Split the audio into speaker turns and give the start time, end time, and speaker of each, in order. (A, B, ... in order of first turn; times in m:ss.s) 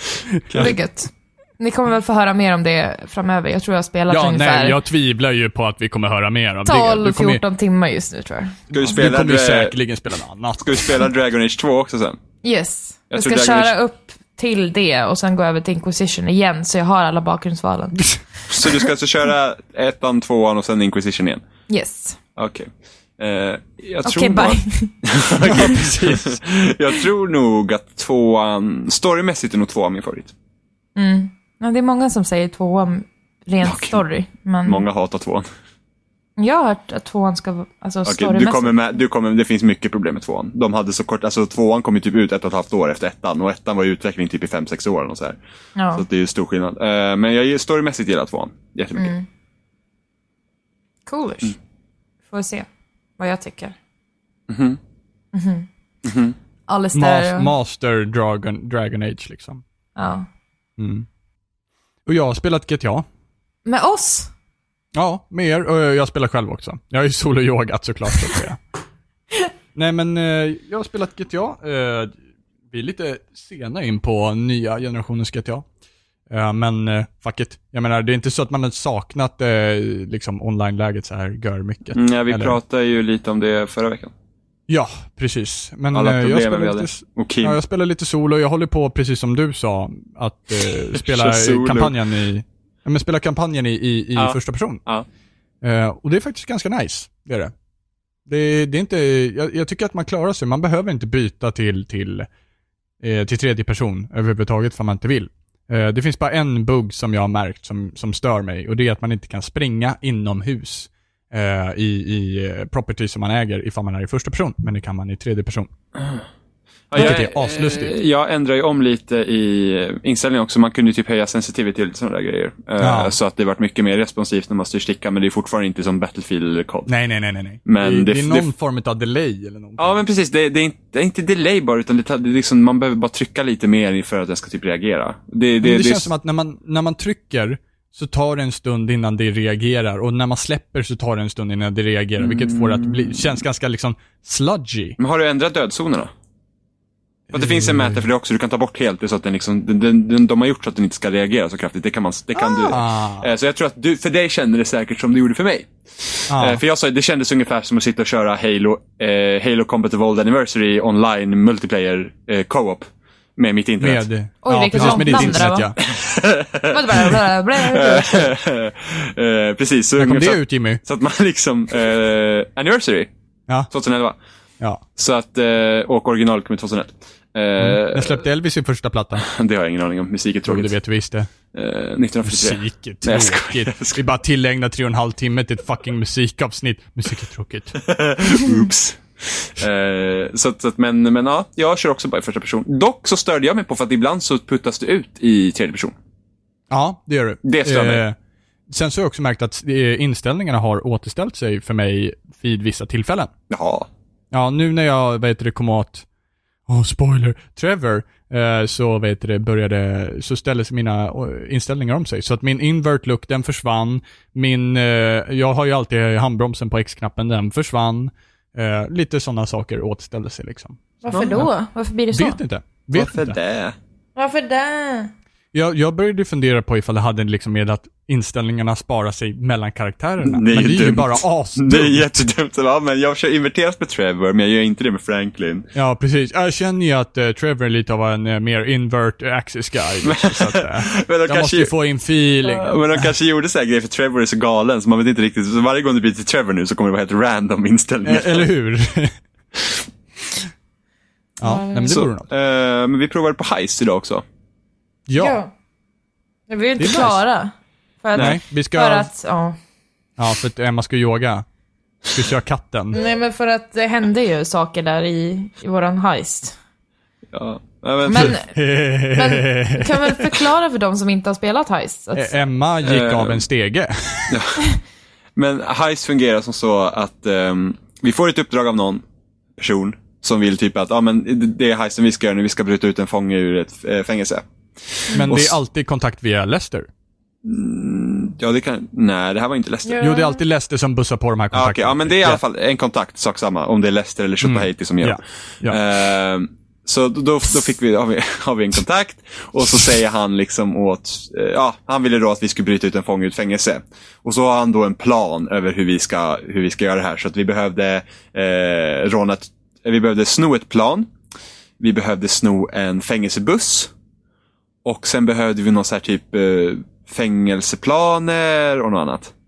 0:00.5-0:00.7 A
0:00.5-0:00.8 B
0:00.5-0:04.8 C
0:04.1-0:07.4 A
0:06.6-0:08.6 C
0:08.7-0:09.8 B
0:08.7-0:11.0 A
0:10.6-0:12.2 B
0:12.4-0:18.1 C
0:13.1-0:13.7 B
0:18.5-0:21.4 B
0:21.7-0:22.2 C
0:22.4-0:30.3 B
0:24.0-0:25.9 C
0:25.5-0:26.3 A
0:31.0-0:34.9 C
0:33.6-0:34.0 B
0:34.6-0:35.5 B
0:36.4-0:38.8 C
0:38.1-0:45.4 B
0:45.8-0:46.0 C
0:46.0-0:49.1 B
0:49.0-0:49.3 C
0:51.1-0:51.6 C
0:52.3-0:53.8 C
0:54.5-0:54.8 B
0:55.3-0:55.7 C
0:56.0-0:56.4 B
0:56.7-0:57.5 C
0:56.9-0:59.6 A
1:00.0-1:00.3 C
1:00.8-1:01.1 A
1:02.1-1:03.0 A
1:03.7-1:04.3 C
1:04.9-1:08.6 A
1:09.8-1:12.1 A
1:12.7-1:15.6 A
1:16.3-1:22.6 A
1:21.9-1:24.1 B
1:24.7-1:34.8 A
1:25.9-1:27.6 B
1:30.9-1:32.0 B
1:34.2-1:35.1 B
1:35.6-1:37.5 A
1:38.3-1:42.3 A
1:43.0-1:55.7 A
1:56.0-1:56.2 B
1:56.9-2:06.9 B
1:56.9-1:58.0 A
2:02.8-2:03.2 A
2:06.9-2:10.0 A
2:07.7-2:08.5 B
2:09.8-2:16.1 B
2:15.6-2:25.0 A
2:22.2-2:23.4 B
2:25.0-2:26.1 B
2:27.3-2:28.0 A
2:27.3-2:44.0 B
2:32.4-2:33.3 A
2:36.3-2:36.6 A
2:43.8-2:45.8 A
2:44.4-2:45.7 C
2:44.7-2:53.1 B
2:46.7-2:48.3 C
2:50.0-2:50.8 A
2:53.7-2:54.2 B
2:55.0-2:58.2 B
2:57.6-2:59.3 A
2:59.2-3:00.8 B
3:00.5-3:01.3 A
3:01.5-3:04.0 B
3:02.2-3:07.8 A
3:07.8-3:15.9 B
3:16.7-3:18.2 A
3:17.4-3:18.0 B
3:18.7-3:23.3 A
3:23.5-3:23.9 B
3:24.3-3:26.1 A
3:26.7-3:41.5 A
3:41.0-3:42.4 C
3:41.1-3:41.4 B
3:42.1-3:43.4 A
3:42.9-3:43.8 B
3:44.2-3:45.1 C
3:45.5-3:52.2 A
3:50.2-3:55.7 B
3:55.8-4:03.1 A
4:00.0-4:01.7 B
4:02.4-4:08.5 B
4:08.0-4:09.2 A
4:11.4-4:12.3 A
4:11.4-4:12.0 C
4:11.9-4:14.2 B
4:15.1-4:15.4 A
4:15.2-4:15.5 C
4:16.5-4:19.6 C
4:16.8-4:17.2 A
4:18.1-4:19.1 A
4:20.2-4:21.4 A
4:22.1-4:23.0 A
4:22.9-4:26.6 C
4:27.3-4:28.4 B
4:28.1-4:32.4 C
4:28.2-4:30.2 A
4:32.2-4:34.4 A
4:32.8-4:33.4 B
4:34.3-4:34.7 B
4:35.4-4:39.0 B
4:39.6-4:45.6 B
4:45.2-4:46.9 A
4:47.4-4:50.1 B
4:49.8-4:50.4 C
4:50.0-4:52.4 A
4:51.5-5:11.1 B
4:54.4-4:55.8 A
5:11.8-5:13.9 B
5:14.8-5:19.3 B